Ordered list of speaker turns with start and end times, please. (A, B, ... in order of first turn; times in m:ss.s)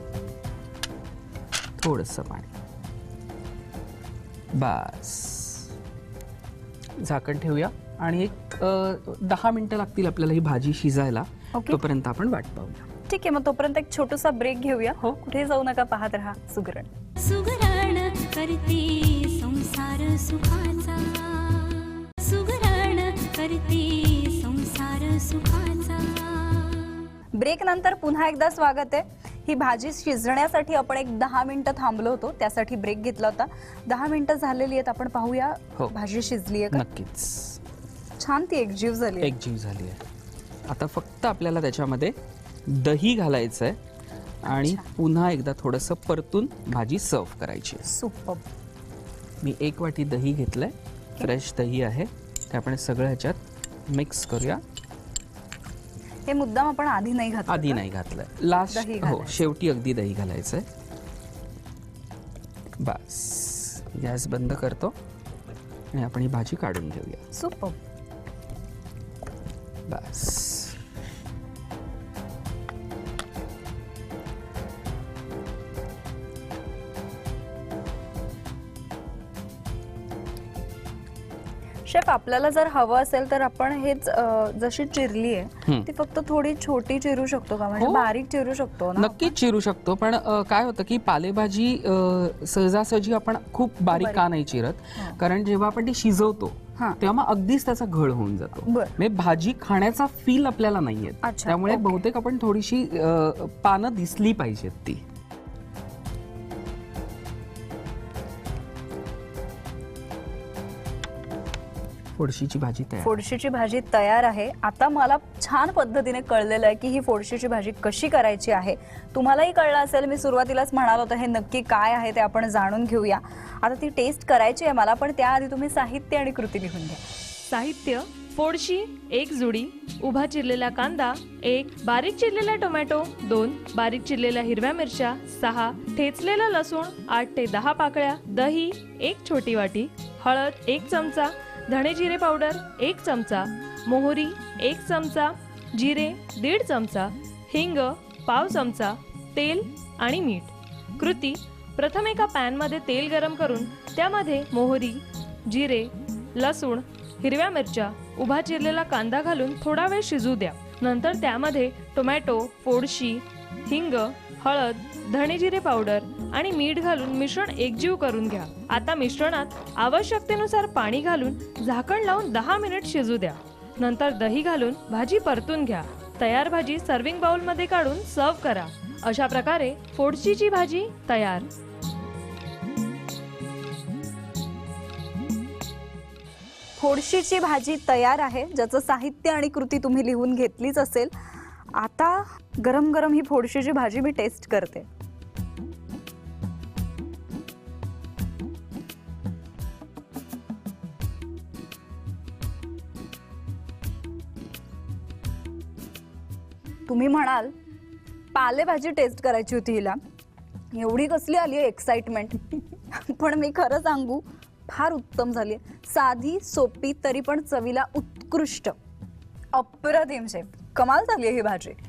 0:01.8-0:02.5 A
0:04.5-0:05.7 A
0:07.0-0:12.9 A
0:11.6-0:11.8 B
0:13.1-0:16.9 B
0:17.2-0:27.0 C
0:27.4-0:36.8 B
0:36.7-0:37.6 A
0:38.2-0:39.3 B
0:39.2-0:40.0 A
0:40.7-0:42.2 A
0:42.7-0:43.8 A
0:44.4-0:47.9 A
0:44.5-0:44.9 B
0:47.9-0:48.4 B
0:49.4-0:54.6 A
0:56.3-0:57.8 B
0:57.5-1:00.7 A
0:58.7-0:59.5 B
1:02.8-1:05.0 A
1:05.9-1:07.2 A
1:07.3-1:07.8 B
1:09.9-1:10.8 A
1:21.9-1:29.3 B
1:27.7-1:28.1 A
1:29.0-1:45.0 A
1:33.9-1:34.2 B
1:38.7-1:38.9 B
1:41.2-1:42.0 B
1:52.2-1:53.2 A
1:53.0-2:07.0 B
2:07.5-3:01.5 D
3:06.8-3:11.1 B
3:11.8-3:14.9 B
3:26.9-3:27.5 B
3:28.3-3:30.0 B
3:30.7-3:38.8 B
3:39.5-3:41.8 B